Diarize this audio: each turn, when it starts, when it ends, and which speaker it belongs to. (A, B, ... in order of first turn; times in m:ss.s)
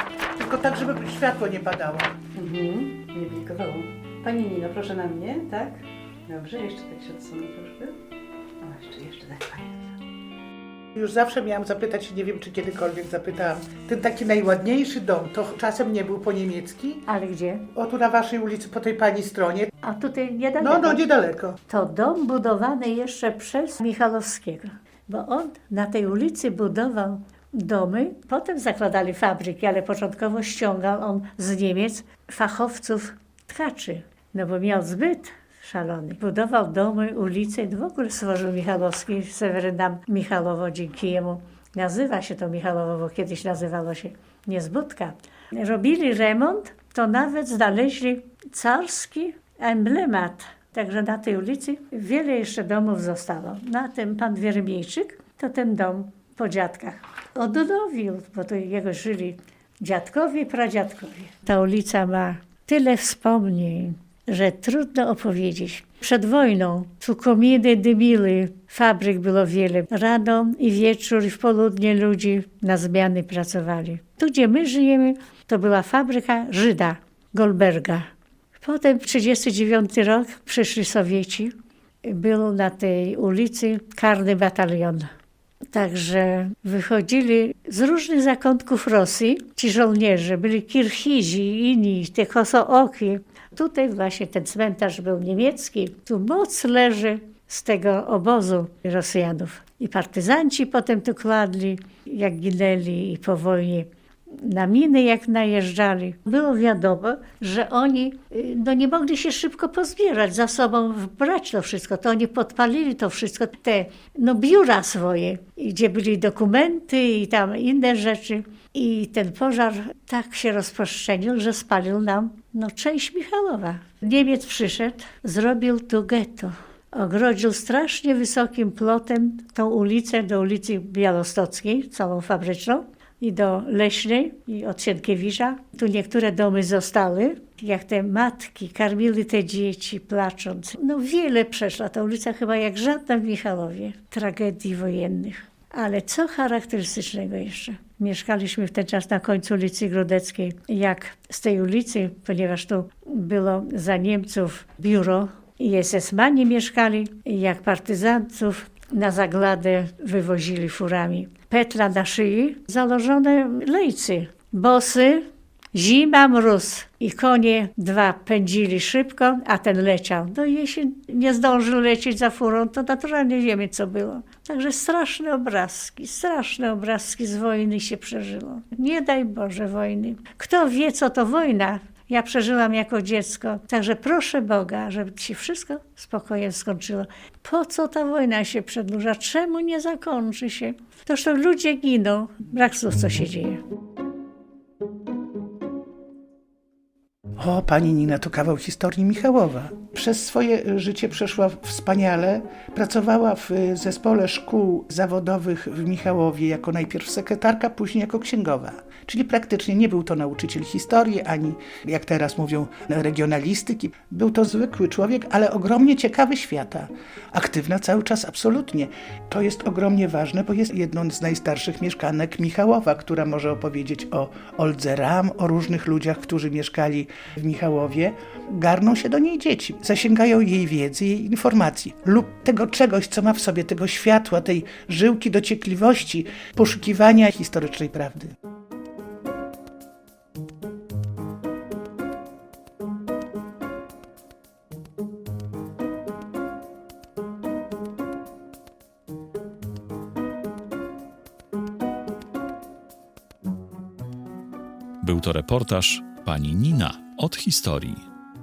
0:00.4-0:02.1 A
0:02.3-0:08.0 B
0:08.6-0:09.8 B
0:11.0-0:17.0 A
0:17.0-0:17.6 C
0:17.7-0:19.7 A
0:19.8-0:21.0 C
0:20.6-0:21.6 A
0:21.7-1:18.1 C
1:18.6-1:21.5 C
1:22.0-1:25.1 C
1:25.7-3:13.6 C
3:17.4-3:58.3 A
4:15.0-4:18.0 D